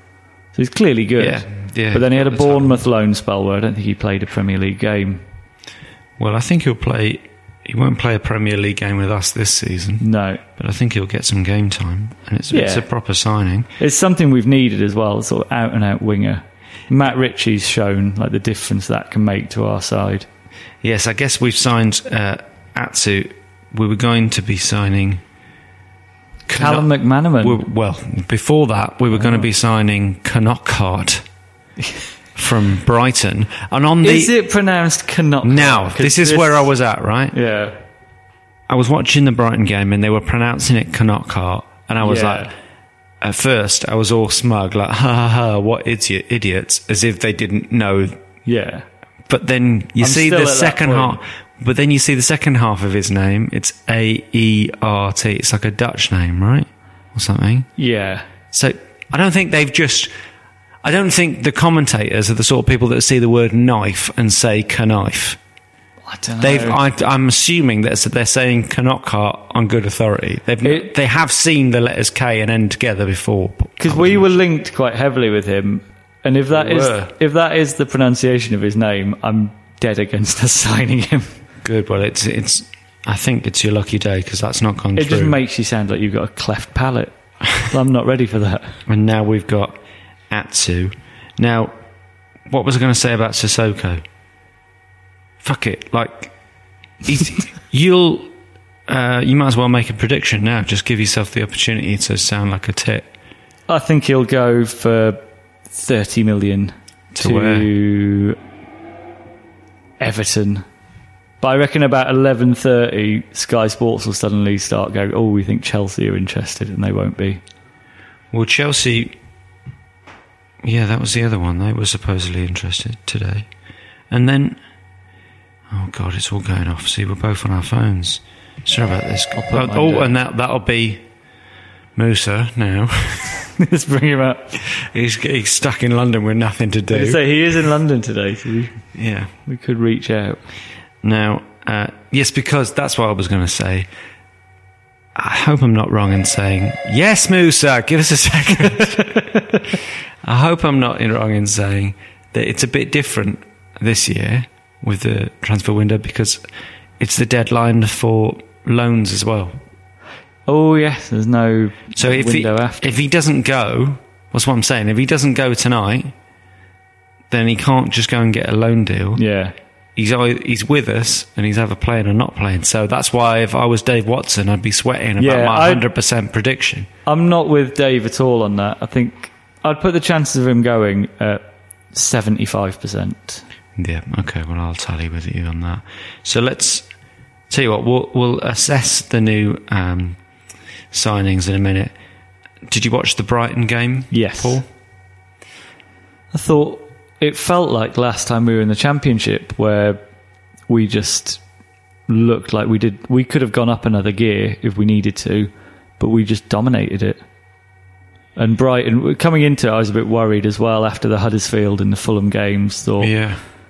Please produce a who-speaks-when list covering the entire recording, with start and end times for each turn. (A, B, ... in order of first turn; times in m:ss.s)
0:00.5-0:05.2 A
0:01.2-0:02.8 B
0:06.2-0:10.0 B
0:10.0-0:10.4 A
0:10.6-0:13.7 B
0:12.5-0:12.8 A
0:13.8-0:20.3 A
0:20.8-0:25.2 B
0:26.5-0:31.2 B
0:26.5-0:27.6 A
0:29.1-0:29.5 A
0:32.4-0:34.3 B
0:34.0-0:36.7 A
0:35.4-0:37.4 B
0:37.3-0:37.8 A
0:38.7-0:42.5 B
0:42.0-0:42.5 A
0:43.2-0:48.2 B
0:48.4-0:48.9 A
0:49.3-0:57.7 B
0:50.0-0:51.2 A
0:57.8-0:58.3 A
0:58.5-1:00.1 B
1:00.8-1:05.4 B
1:06.1-1:06.8 A
1:06.4-1:14.3 B
1:10.6-1:10.9 A
1:13.8-1:21.3 A
1:16.5-1:17.1 B
1:21.6-1:25.4 B
1:25.0-1:28.8 A
1:28.9-1:29.8 B
1:30.3-1:31.7 B
1:32.5-1:34.0 B
1:35.4-1:36.3 B
1:37.0-1:38.3 B
1:38.9-1:43.1 B
1:43.7-1:45.2 A
1:45.7-1:48.4 A
1:47.2-1:47.7 B
1:50.0-1:50.6 A
1:51.4-1:57.4 A
1:58.3-1:59.1 B
2:00.6-2:03.5 B
2:04.1-2:04.6 B
2:05.7-2:11.0 B
2:09.4-2:10.1 A
2:12.0-2:13.4 B
2:13.6-2:14.5 A
2:14.6-2:17.2 B
2:16.9-2:18.8 A
2:19.0-2:19.3 B
2:19.5-2:20.4 A
2:21.0-2:23.9 B
2:25.2-2:29.4 B
2:30.2-2:36.4 B
2:37.0-2:39.6 B
2:40.5-2:42.9 A
2:42.0-2:46.1 B
2:47.3-2:49.2 B
2:49.2-2:49.5 A
2:50.0-2:56.9 B
2:55.2-2:55.8 A
2:57.1-3:01.4 A
3:01.9-3:03.4 A
3:03.8-3:06.9 B
3:07.5-3:10.2 B
3:10.9-3:11.9 B
3:12.7-3:14.6 B
3:14.1-3:14.6 A
3:16.3-3:20.0 A
3:20.7-3:21.4 A
3:22.1-3:27.2 A
3:28.4-3:33.1 A
3:33.0-3:33.4 B